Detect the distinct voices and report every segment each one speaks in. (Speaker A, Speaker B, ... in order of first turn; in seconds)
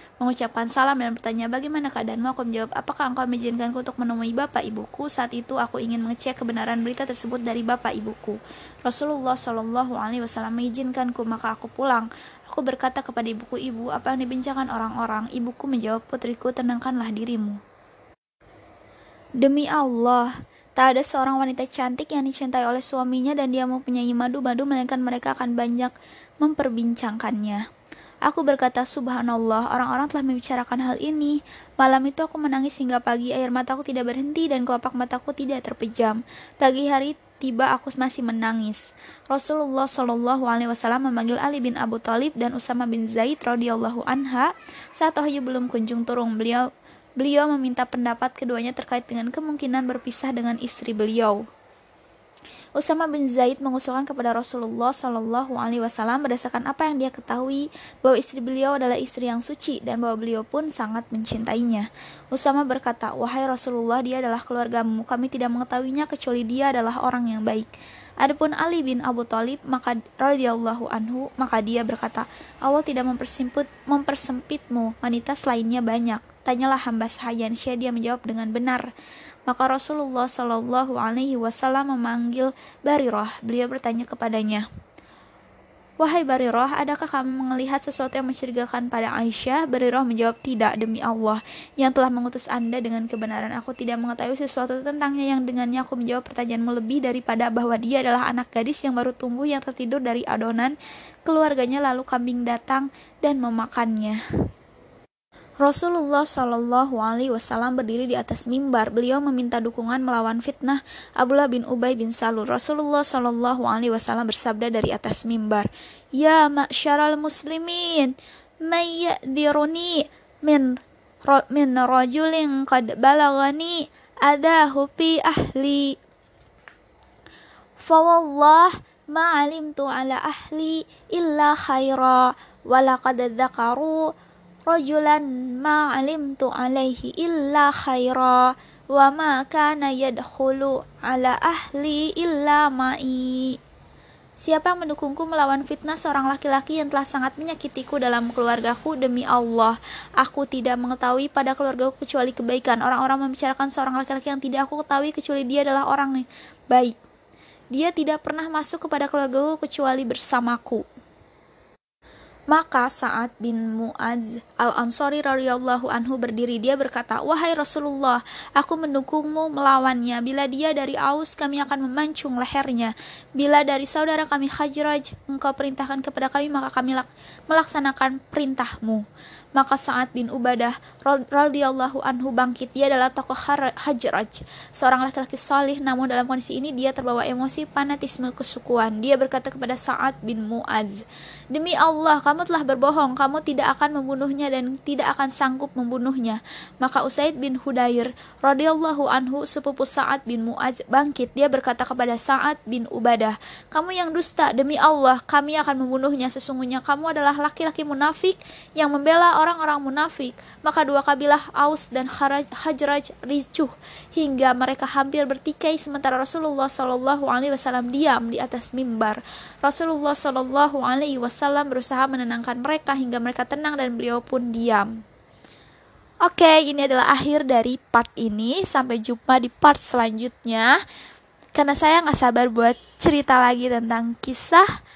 Speaker A: 0.2-17.6, 19.4-27.6, 28.2-46.7, 47.2-51.4, 52.8-78.9, 79.5-84.6, 86.0-104.2, 105.6-126.0, 127.8-134.1, 134.7-143.6, 144.4-157.0, 157.7-160.8, 162.5-224.9, 226.2-230.8, 231.5-234.7